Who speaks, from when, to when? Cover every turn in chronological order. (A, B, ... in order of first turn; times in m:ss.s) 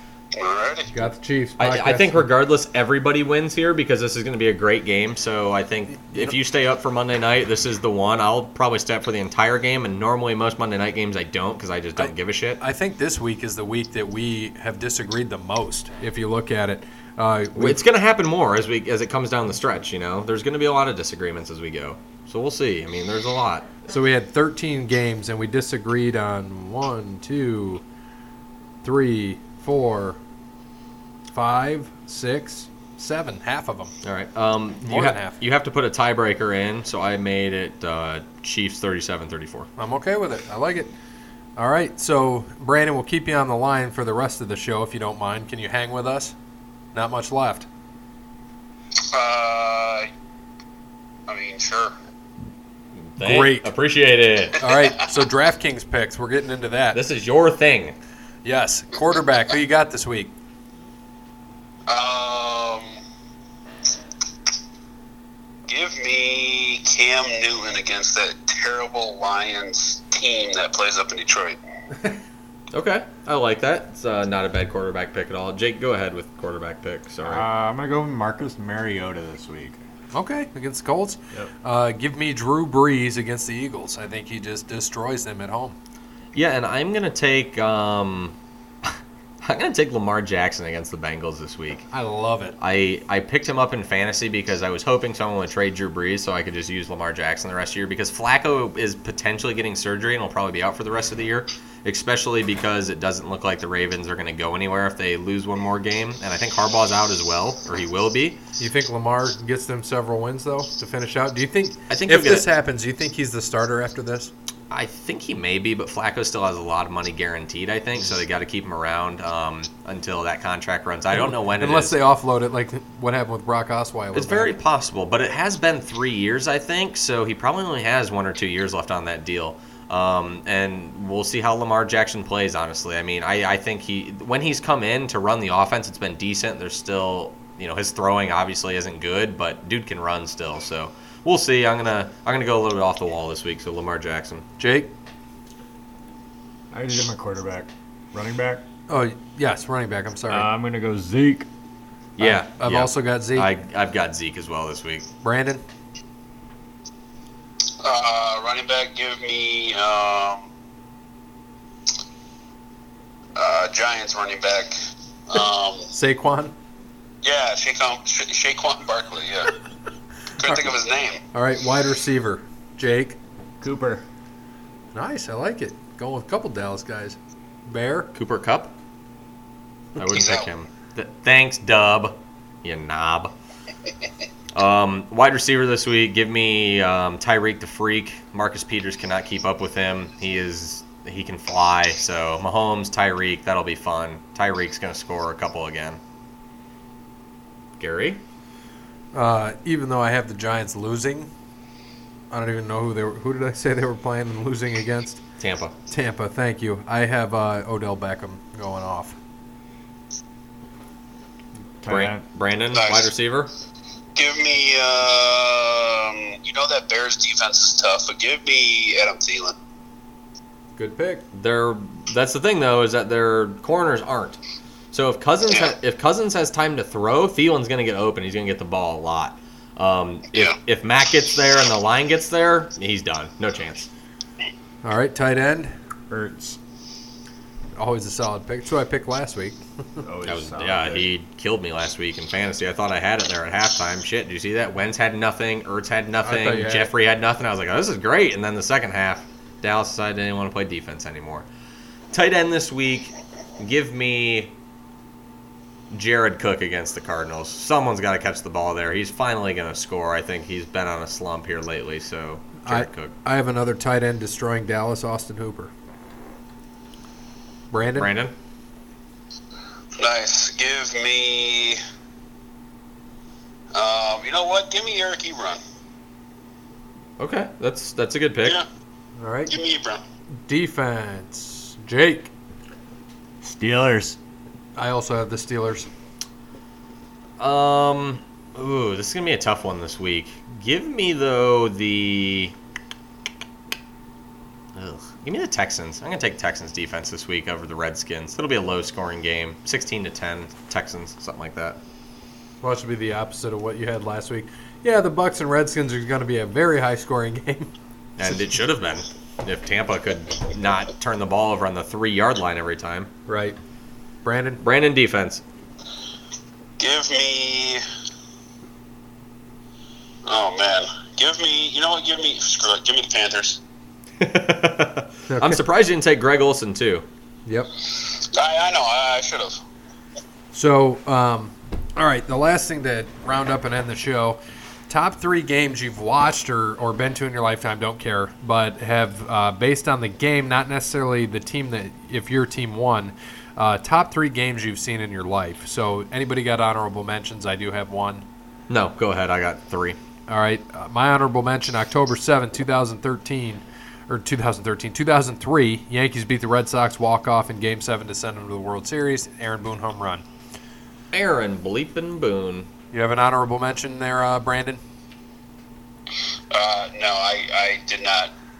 0:00.4-0:00.9 A
0:00.9-0:02.3 B
0:01.6-0:12.6 C
0:06.1-0:06.3 B
0:12.0-0:17.8 B
0:17.6-0:23.7 C
0:23.9-0:27.8 B
0:28.8-0:30.2 B
0:31.3-0:33.9 B
0:34.0-0:39.7 C
0:34.8-0:35.4 B
0:39.8-0:40.9 B
0:41.6-0:46.3 B
0:46.9-0:47.7 B
0:49.1-0:50.1 A
0:51.3-0:51.9 A
0:53.1-0:54.6 C
0:53.2-0:53.7 B
0:54.6-0:57.0 B
0:56.9-0:58.0 C
0:58.4-1:00.3 B
1:01.9-1:02.9 A
1:05.7-1:11.6 A
1:12.7-1:17.4 C
1:17.2-1:19.8 D
1:20.1-1:25.8 B
1:26.3-1:31.9 C
1:31.9-1:32.6 B
1:32.6-1:48.4 C
1:48.6-1:54.3 B
1:51.9-1:52.4 C
1:54.7-2:02.0 C
2:01.1-2:04.5 B
2:04.1-2:24.4 C
2:24.6-2:24.9 B
2:26.7-2:28.6 D
2:28.9-2:30.5 B
2:30.3-2:31.5 D
2:32.2-2:35.1 C
2:32.2-2:33.5 B
2:35.2-2:35.6 B
2:37.8-2:40.4 A
2:43.4-2:44.7 A
2:45.3-2:45.9 A
2:45.9-2:46.5 B
2:47.2-2:49.5 A
2:50.4-2:51.2 A
2:50.4-2:50.7 B
2:51.3-2:53.2 B
2:53.6-2:54.0 D
2:54.9-2:58.1 B
2:58.1-2:58.7 C
3:00.0-3:03.3 C
3:00.1-3:00.4 A
3:04.5-3:16.0 C
3:17.8-3:18.2 C
3:19.1-3:21.3 B
3:22.3-3:25.2 B
3:25.4-3:25.7 C
3:25.9-3:29.2 B
3:31.8-3:32.2 D
3:31.9-3:33.5 C
3:32.7-3:33.1 A
3:34.2-3:39.5 A
3:40.8-3:41.2 B
3:41.3-3:44.4 C
3:44.9-3:53.9 C
3:54.8-3:55.7 B
3:56.1-3:56.6 D
3:57.8-3:59.6 B
4:00.0-4:01.1 D
4:00.2-4:11.4 C
4:06.2-4:06.9 B
4:12.1-4:14.5 C
4:15.9-4:23.1 C
4:22.6-4:25.7 B
4:27.7-4:28.1 B
4:27.9-4:28.3 C
4:30.0-4:31.8 A
4:33.7-4:35.6 A
4:37.2-4:38.6 C
4:39.2-4:39.5 B
4:39.5-4:40.0 A
4:40.4-4:42.3 B
4:43.4-4:44.2 D
4:44.8-4:45.9 B
4:47.4-4:52.5 C
4:54.7-5:01.8 C
5:02.6-5:07.7 B
5:08.2-5:13.1 C
5:13.3-5:13.6 B
5:14.2-5:14.6 B
5:14.6-5:15.4 C
5:16.8-5:17.8 A
5:20.2-5:23.6 A
5:24.2-5:27.0 C
5:25.3-5:25.6 B
5:28.0-5:29.6 A
5:30.5-5:48.2 B
5:48.7-5:50.0 C
5:50.3-6:00.2 B
6:01.1-6:02.7 C
6:02.9-6:04.8 B
6:06.5-6:08.3 A